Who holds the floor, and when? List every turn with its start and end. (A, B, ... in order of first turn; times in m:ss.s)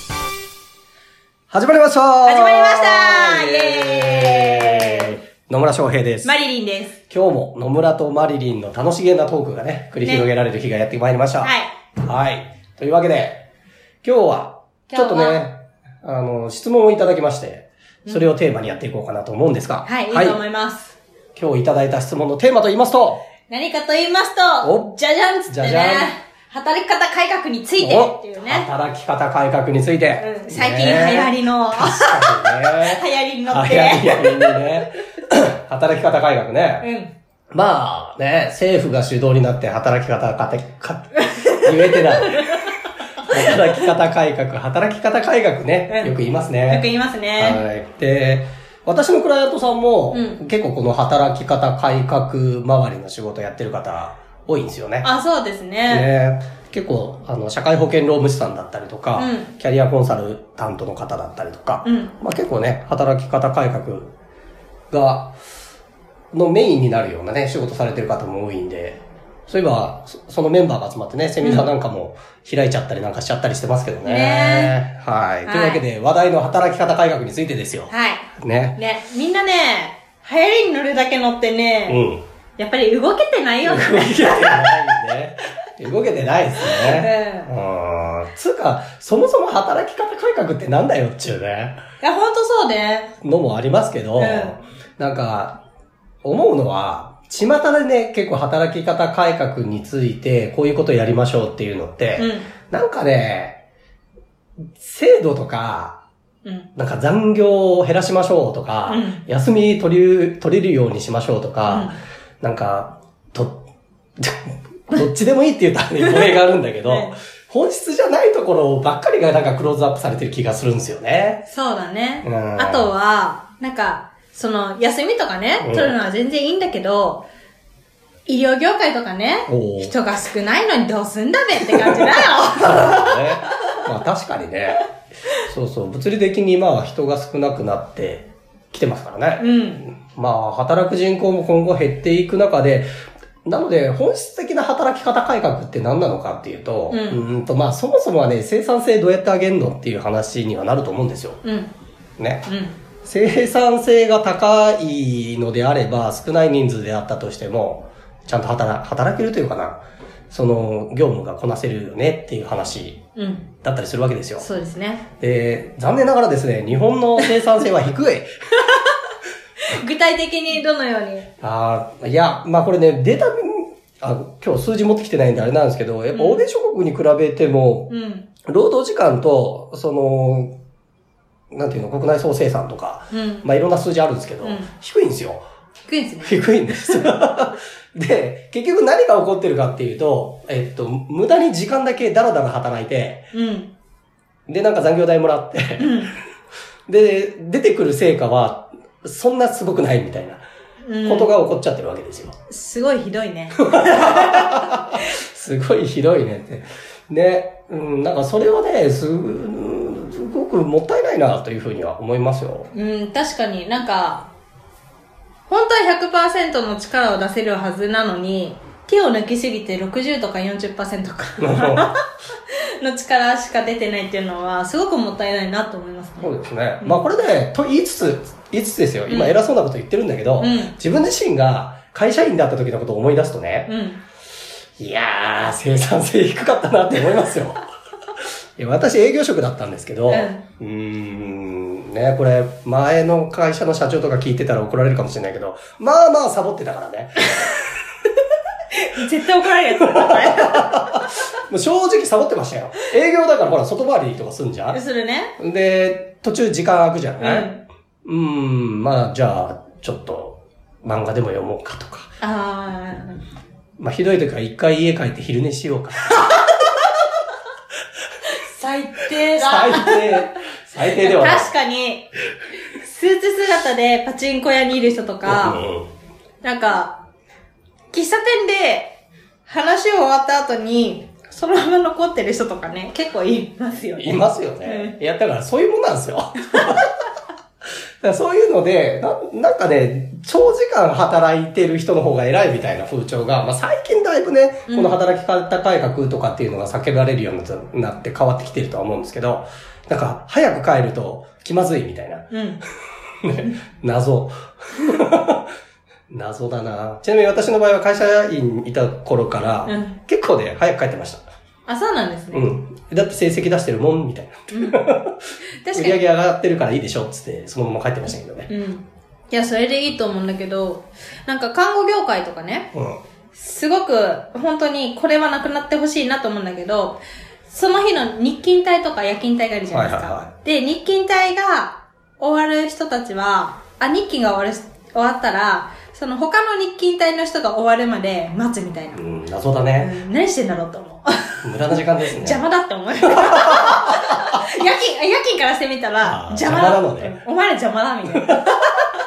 0:01.5-0:06.3 A
0:02.2-0:05.2 B
0:06.2-0:07.0 B
0:07.1-0:11.5 A
0:10.0-0:10.3 B
0:11.4-0:11.7 B
0:12.0-0:13.4 A
0:14.0-0:20.4 A
0:14.9-0:15.4 B
0:19.9-0:21.0 B
0:21.3-0:23.2 A
0:23.5-0:28.7 B
0:24.6-0:26.1 A
0:27.8-0:36.9 A
0:30.1-0:34.7 B
0:36.8-0:37.1 B
0:37.5-0:46.9 A
0:41.3-0:42.6 B
0:45.9-0:46.1 B
0:46.7-0:47.6 B
0:47.4-0:55.1 A
0:50.1-0:50.4 B
0:55.0-0:56.1 B
0:55.9-1:04.1 A
0:59.2-0:59.5 B
1:01.8-1:02.1 B
1:04.9-1:05.3 A
1:06.3-1:18.8 A
1:11.4-1:11.7 B
1:14.0-1:14.8 B
1:15.4-1:15.8 B
1:17.9-1:22.0 B
1:21.9-1:22.2 A
1:22.6-1:24.9 B
1:23.6-1:31.8 A
1:26.6-1:27.5 B
1:32.0-1:33.1 B
1:33.2-1:35.6 A
1:34.2-1:34.6 B
1:36.2-1:43.6 A
1:42.2-1:42.5 B
1:44.8-1:46.0 A
1:46.4-1:46.7 B
1:46.8-1:53.6 A
1:48.9-1:49.2 B
1:51.7-1:52.0 B
1:54.2-2:01.4 A
1:56.9-1:57.1 B
2:01.5-2:07.3 B
2:02.2-2:02.9 A
2:05.6-2:06.0 A
2:08.2-2:13.5 B
2:09.5-2:09.9 A
2:11.7-2:14.8 A
2:15.4-2:22.9 A
2:19.4-2:19.8 B
2:23.4-2:31.4 A
2:26.9-2:27.2 B
2:31.4-2:31.7 B
2:32.2-2:32.5 A
2:32.4-2:32.8 B
2:33.0-2:43.0 A
2:43.2-2:43.5 B
2:43.6-2:44.5 A
2:44.4-2:45.0 B
2:45.2-2:48.3 A
2:49.7-2:51.3 B
2:51.4-2:57.9 A
2:56.1-2:56.4 B
2:57.9-2:58.3 B
2:58.4-3:00.5 A
3:01.5-3:05.4 A
3:03.1-3:03.5 B
3:04.4-3:04.7 B
3:05.9-3:07.1 B
3:06.2-3:13.2 A
3:13.3-3:13.7 B
3:14.5-3:16.0 A
3:15.8-3:16.2 B
3:16.9-3:20.4 A
3:20.8-3:21.3 B
3:21.0-3:22.4 A
3:22.5-3:24.7 B
3:23.6-3:32.7 A
3:32.7-3:34.3 B
3:35.5-3:42.0 B
3:41.4-3:41.9 A
3:42.5-3:47.0 B
3:46.2-3:53.7 A
3:49.1-3:49.4 B
3:50.4-3:50.7 B
3:53.7-3:54.0 B
3:54.8-3:57.6 A
3:58.6-4:07.5 A
4:00.1-4:00.4 B
4:08.7-4:11.0 B
4:09.8-4:14.8 A
4:14.7-4:15.3 B
4:15.4-4:17.5 A
4:17.2-4:17.6 B
4:18.0-4:22.1 A
4:22.2-4:23.2 B
4:23.8-4:26.5 A
4:28.3-4:30.3 B
4:29.3-4:31.5 A
4:30.9-4:32.1 B
4:32.8-4:35.6 B
4:35.2-4:35.9 A
4:36.4-4:37.0 B
4:37.9-4:44.9 B
4:44.0-4:46.9 A
4:48.0-5:02.3 A
4:54.7-4:55.0 B
5:02.3-5:02.6 B
5:03.2-5:05.4 A
5:06.1-5:11.2 A
5:09.6-5:10.0 B
5:11.7-5:12.5 B
5:12.3-5:18.5 A
5:14.5-5:14.8 B
5:15.6-5:16.0 B
5:18.5-5:22.7 B
5:22.7-5:23.0 A
5:23.3-5:39.0 B
5:29.7-5:30.3 A
5:38.9-5:39.9 A
5:39.8-5:41.4 B
5:41.4-5:42.4 A
5:42.0-5:48.9 B
5:43.2-5:44.0 A
5:46.0-5:47.1 A
5:48.1-5:48.4 A